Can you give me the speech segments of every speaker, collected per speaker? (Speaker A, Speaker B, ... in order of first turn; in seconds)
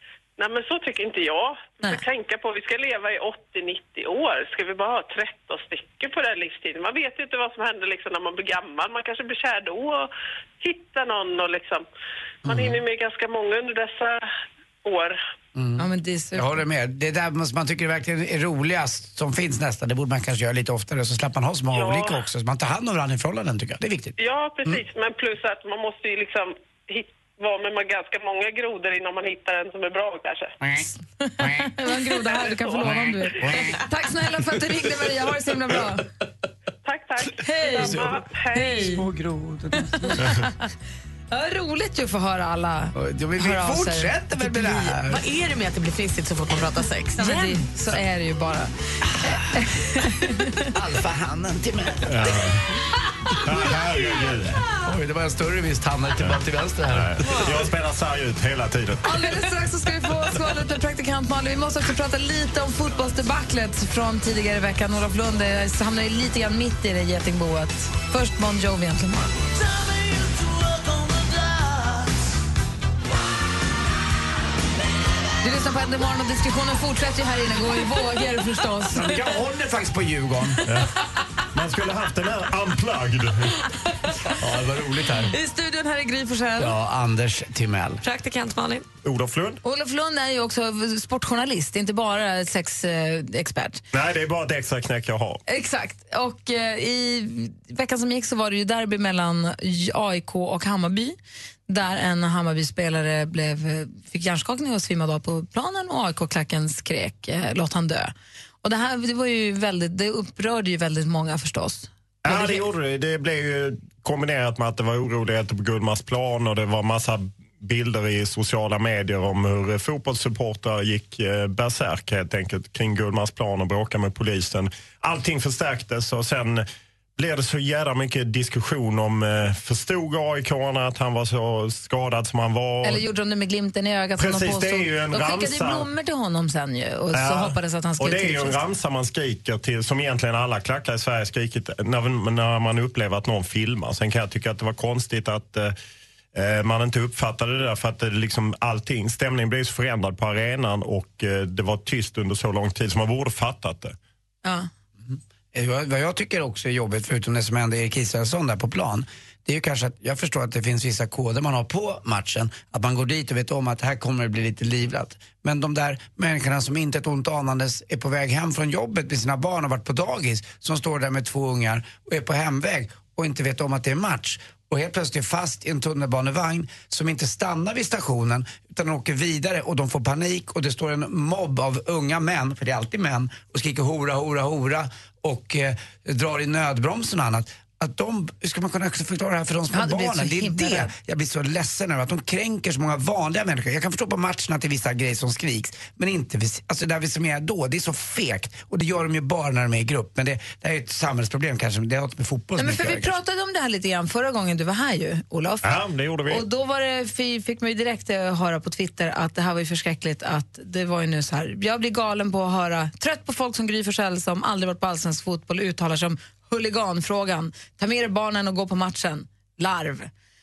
Speaker A: 0.4-11.8, 12.4-14.2, 14.8-15.2, 21.7-22.2, 24.2-30.5, 32.7-32.9, 36.8-39.0
Speaker B: 12.4-12.8, 15.5-24.8, 30.6-30.9, 31.4-31.7, 32.8-33.8, 37.8-38.2, 38.9-40.3, 42.9-45.2, 50.7-52.4, 53.6-54.0, 54.8-57.2, 78.9-80.6, 84.4-85.3, 86.6-88.0, 155.1-203.2
Speaker C: 15.8-16.6, 31.2-36.0, 37.4-39.0, 39.8-40.7, 41.3-44.1, 47.2-50.6, 59.0-69.4, 75.4-79.1, 85.3-86.7, 89.6-93.8, 95.5-101.2, 101.7-108.1, 108.6-112.6, 132.8-138.6, 154.4-154.7, 189.7-190.9, 202.6-220.1
Speaker D: 44.6-47.6, 88.0-88.8
Speaker E: 52.1-52.6, 53.4-54.6, 56.9-59.0, 80.7-80.9, 81.5-83.6, 89.0-89.6, 93.9-95.4, 112.2-126.6, 127.2-133.0, 134.2-135.9, 137.1-145.7, 146.3-153.9, 205.6-206.4